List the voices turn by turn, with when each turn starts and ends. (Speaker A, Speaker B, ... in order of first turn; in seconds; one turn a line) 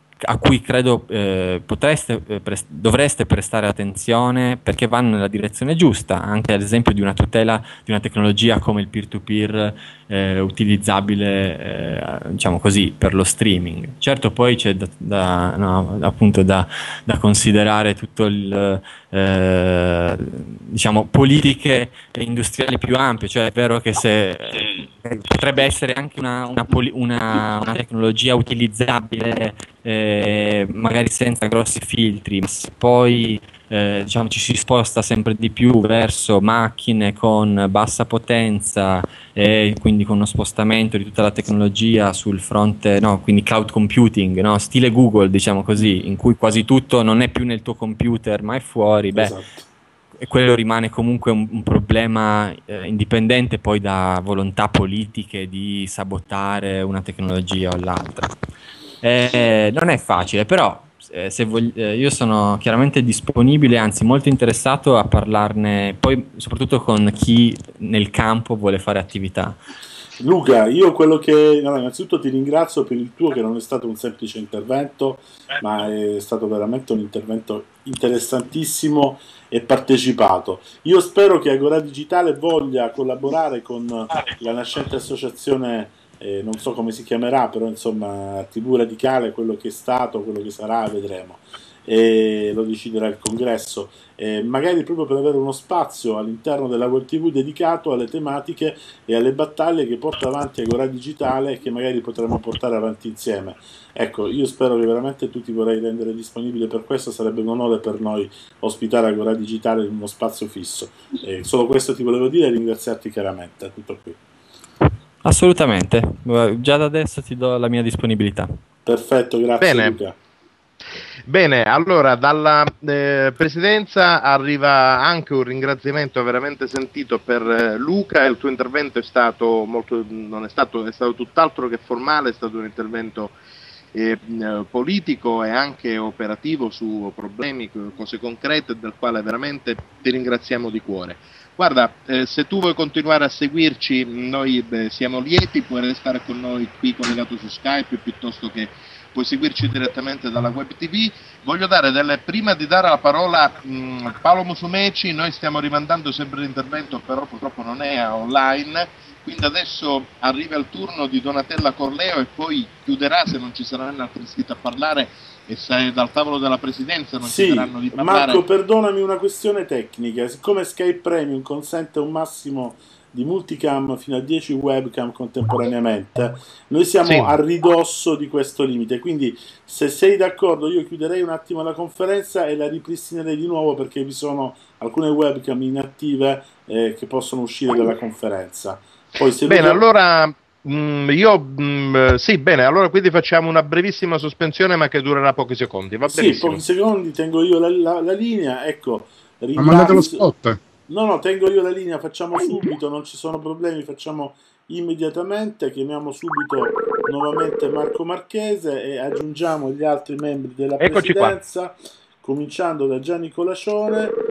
Speaker A: 0.2-49.4
Speaker B: 49.1-49.7
Speaker A: 50.2-58.3
Speaker A: 59.0-69.6
Speaker B: 70.2-114.2
Speaker A: 115.2-118.5
Speaker B: 118.9-120.2
Speaker C: 119.6-120.0
Speaker C: 121.3-133.3
Speaker C: 133.9-168.4
Speaker B: 167.2-189.8
Speaker C: 177.0-177.3
Speaker C: 189.4-196.7
Speaker B: 196.1-200.2
Speaker C: 199.6-200.6
Speaker B: 200.9-214.2
Speaker C: 210.8-211.4